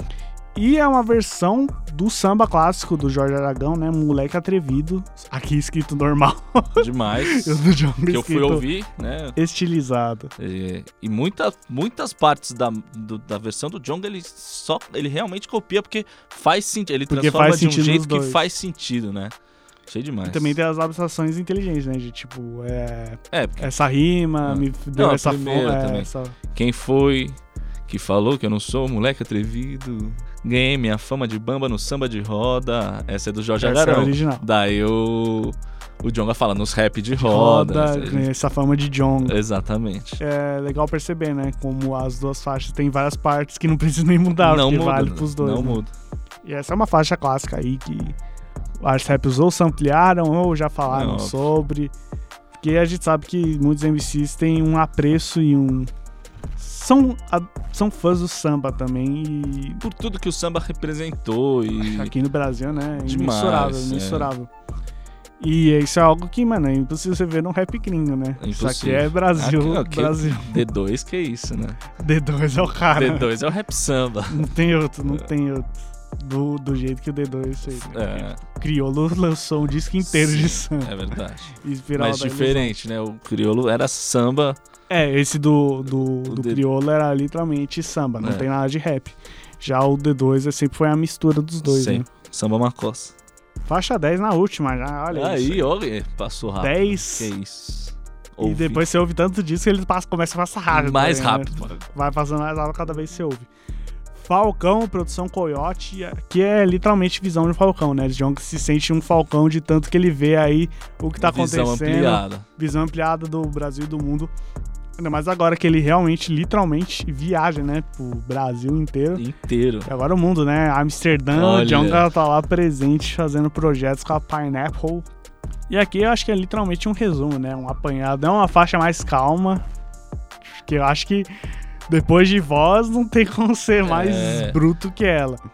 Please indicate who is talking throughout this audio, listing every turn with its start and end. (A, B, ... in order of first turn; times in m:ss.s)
0:00.6-0:08.7 A
0:06.8-0:09.4 B
0:09.4-0:10.3 A
0:10.4-0:19.4 B
0:17.1-0:18.4 A
0:19.9-0:20.6 B
0:20.2-0:26.4 A
0:23.3-0:23.7 B
0:24.4-0:38.3 B
0:33.6-0:34.4 A
0:37.2-0:39.4 A
0:39.2-0:40.2 B
0:40.2-0:45.8 A
0:44.4-0:45.9 B
0:46.4-0:48.2 A
0:48.8-0:51.9 A
0:50.9-0:51.4 B
0:52.6-0:55.9 A
0:56.6-0:59.8 A
0:59.8-1:02.1 B
1:01.8-1:04.5 A
1:03.0-1:04.3 B
1:05.4-1:10.6 A
1:08.4-1:11.8 B
1:12.0-1:13.3 A
1:12.9-1:14.5 B
1:14.3-1:20.9 A
1:17.8-1:18.4 B
1:20.0-1:24.6 B
1:21.6-1:22.8 A
1:24.9-1:32.1 A
1:26.3-1:26.6 B
1:28.2-1:28.5 B
1:31.6-1:33.1 B
1:33.7-1:35.7 A
1:35.1-1:38.9 B
1:36.6-1:37.3 A
1:38.4-1:43.5 A
1:40.7-1:41.8 B
1:44.1-1:54.3 A
1:51.2-1:52.5 B
1:55.0-1:59.2 A
1:59.2-1:59.9 B
1:59.9-2:05.1 A
2:01.3-2:02.1 B
2:05.7-2:09.6 A
2:10.6-2:11.3 A
2:11.9-2:15.4 A
2:13.8-2:14.6 B